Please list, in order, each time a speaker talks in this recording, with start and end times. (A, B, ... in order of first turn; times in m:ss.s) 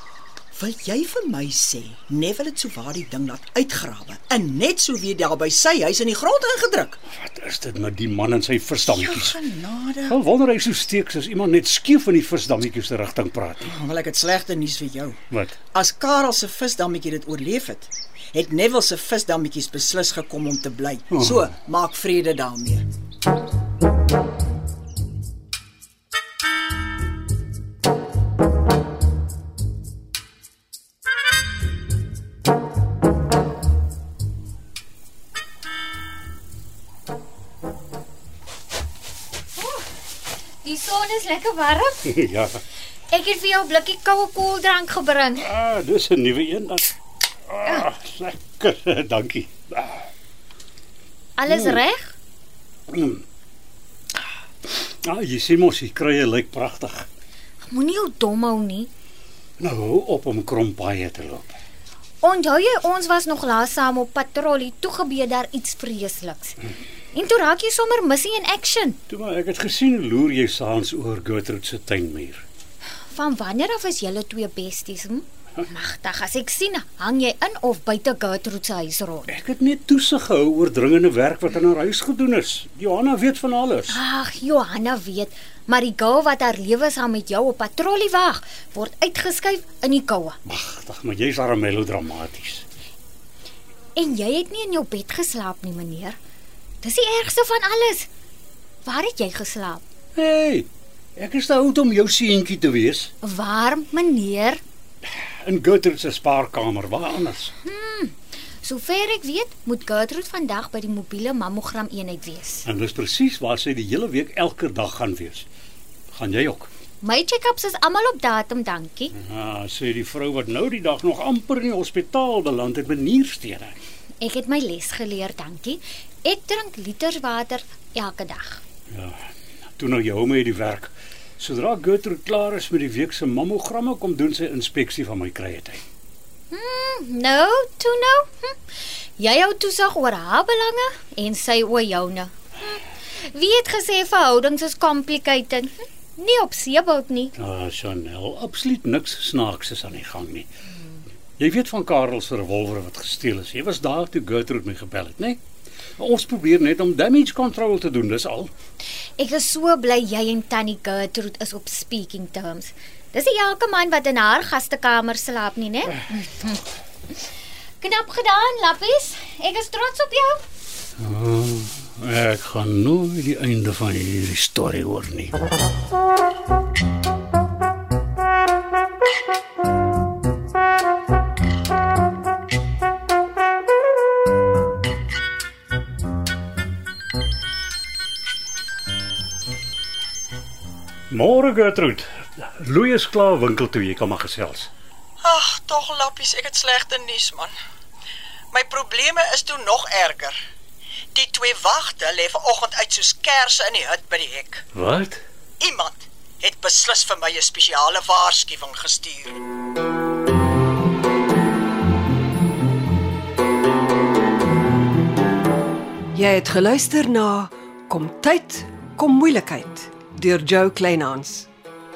0:00.5-0:07.0 A
0:07.1-0:09.4 B
0:08.8-0:10.2 A
0:10.1-0:13.8 B
0:13.6-0:15.2 A
0:15.3-0:15.6 B
0:15.7-0:22.8 A
0:21.1-0:21.5 B
0:39.6-0:39.9 C
0:40.6-0:42.0 C
0:42.1-0:42.6 B
0:43.1-0:45.5 C
0:45.4-0:47.0 B
0:47.5-0:50.1 B
0:51.4-0:52.2 C
0:51.5-0:51.8 B
0:52.9-0:53.2 B
0:54.7-0:57.1 B
0:57.6-0:58.9 C
0:59.6-1:01.6 B
1:02.2-1:06.6 C
1:07.1-1:09.0 C
1:09.1-1:12.4 B
1:13.1-1:19.3 C
1:19.3-1:24.0 B
1:23.9-1:30.4 C
1:30.5-1:32.6 B
1:34.0-1:36.2 C
1:36.8-1:38.1 C
1:38.8-1:39.8 C
1:40.2-1:43.1 B
1:43.2-1:44.6 C
1:45.1-1:47.5 B
1:47.6-1:52.7 C
1:52.6-1:55.5 B
1:56.1-1:56.7 B
1:57.0-1:59.1 C
1:59.2-2:03.8 B
2:04.2-2:08.6 C
2:08.9-2:15.8 B
2:16.5-2:18.6 C
2:19.2-2:27.3 C
2:27.4-2:30.5 B
2:31.4-2:35.4 B
2:36.0-2:38.5 B
2:39.2-2:47.2 C
2:47.8-2:50.4 C
2:51.0-2:55.4 B
3:11.1-3:14.7 B
3:15.2-3:17.5 A
3:18.5-3:20.4 A
3:21.1-3:24.7 A
3:24.7-3:25.2 B
3:25.6-3:29.4 A
3:36.1-3:41.5 D